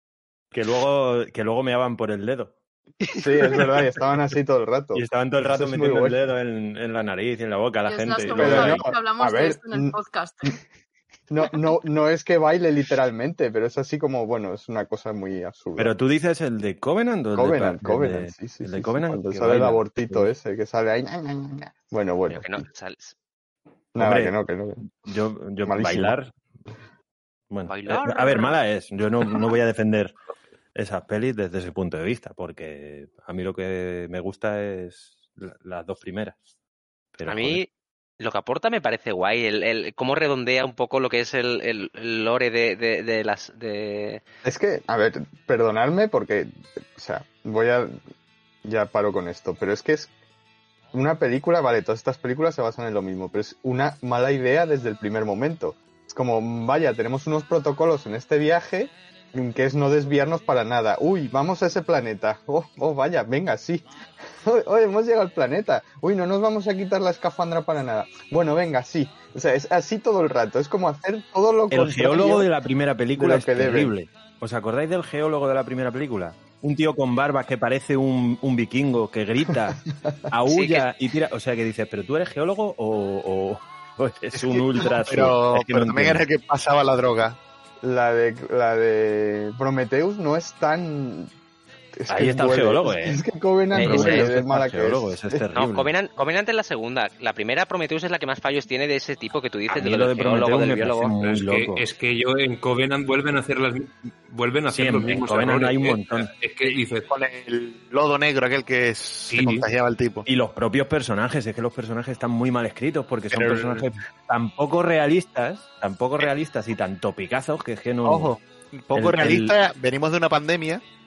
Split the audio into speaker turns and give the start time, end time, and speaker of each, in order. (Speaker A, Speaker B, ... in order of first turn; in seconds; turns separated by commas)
Speaker A: 0.5-2.5, Speaker B: 3.1-6.2, Speaker A: 4.9-8.9, Speaker C: 7.9-10.6, Speaker B: 8.3-9.9, Speaker B: 11.3-15.9, Speaker A: 15.8-20.3, Speaker B: 17.3-22.6, Speaker D: 22.3-23.1, Speaker B: 23.9-24.9, Speaker A: 24.0-24.4, Speaker A: 24.9-26.3, Speaker B: 25.6-26.1, Speaker A: 27.5-30.1, Speaker D: 27.7-28.6, Speaker A: 30.7-36.4, Speaker A: 37.1-37.6, Speaker D: 37.2-37.7, Speaker D: 38.2-44.2, Speaker B: 44.4-48.0, Speaker B: 48.6-50.1, Speaker B: 50.9-63.9, Speaker B: 64.4-72.5, Speaker A: 71.7-79.8, Speaker B: 73.2-73.9, Speaker A: 80.3-86.2, Speaker D: 80.5-80.9, Speaker E: 84.4-87.4, Speaker B: 87.8-91.3, Speaker B: 91.9-95.4, Speaker A: 92.1-93.2, Speaker D: 93.7-94.3, Speaker A: 93.7-95.9, Speaker D: 95.5-101.1, Speaker A: 99.7-101.8, Speaker F: 101.2-107.1, Speaker A: 104.7-106.3, Speaker E: 106.6-110.2, Speaker F: 109.3-109.6, Speaker A: 110.2-118.3, Speaker E: 113.3-113.9, Speaker E: 118.0-120.8, Speaker A: 118.9-119.5